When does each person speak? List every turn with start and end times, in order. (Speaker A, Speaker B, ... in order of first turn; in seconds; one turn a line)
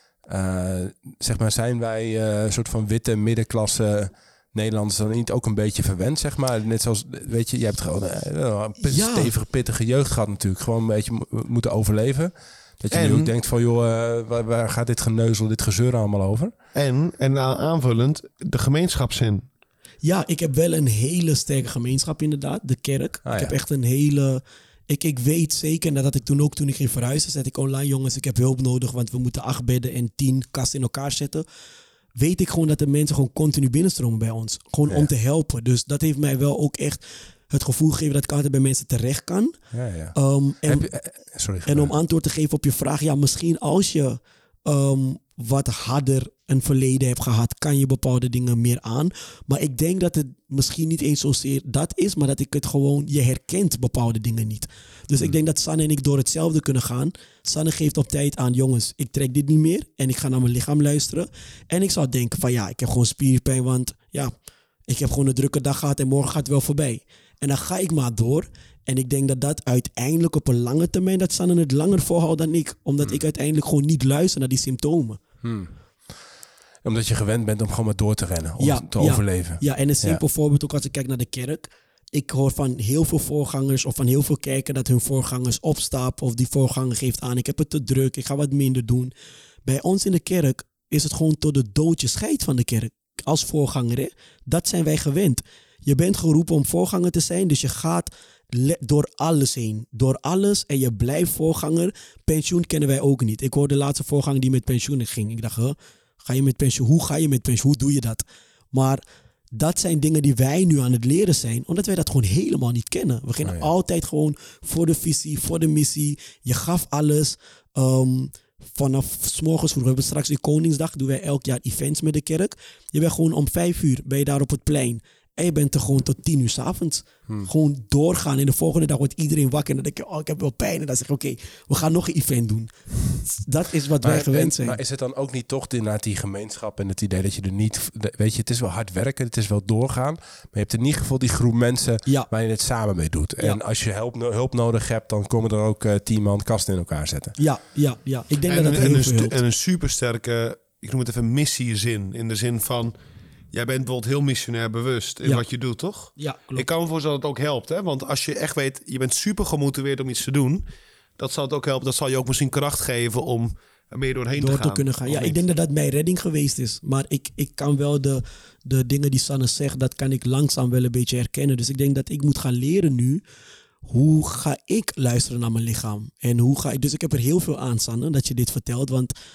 Speaker A: 0.2-16.5
Speaker B: 8.8-9.3
Speaker C: 12.9-13.3
Speaker C: 16.8-19.5
Speaker B: 20.0-31.4
Speaker A: 23.2-23.6
Speaker B: 32.1-75.2
Speaker A: 39.7-41.9
Speaker A: 75.4-75.7
Speaker A: 76.8-80.2
Speaker B: 78.6-89.1
Speaker B: 89.7-109.0
Speaker B: 109.5-134.8
Speaker A: 113.4-113.7
Speaker A: 134.0-147.4
Speaker B: 147.4-149.4
Speaker C: 148.5-152.9
Speaker C: 153.5-160.7
Speaker B: 156.2-156.7
Speaker C: 161.2-165.4
Speaker B: 164.4-173.2
Speaker B: 173.8-179.1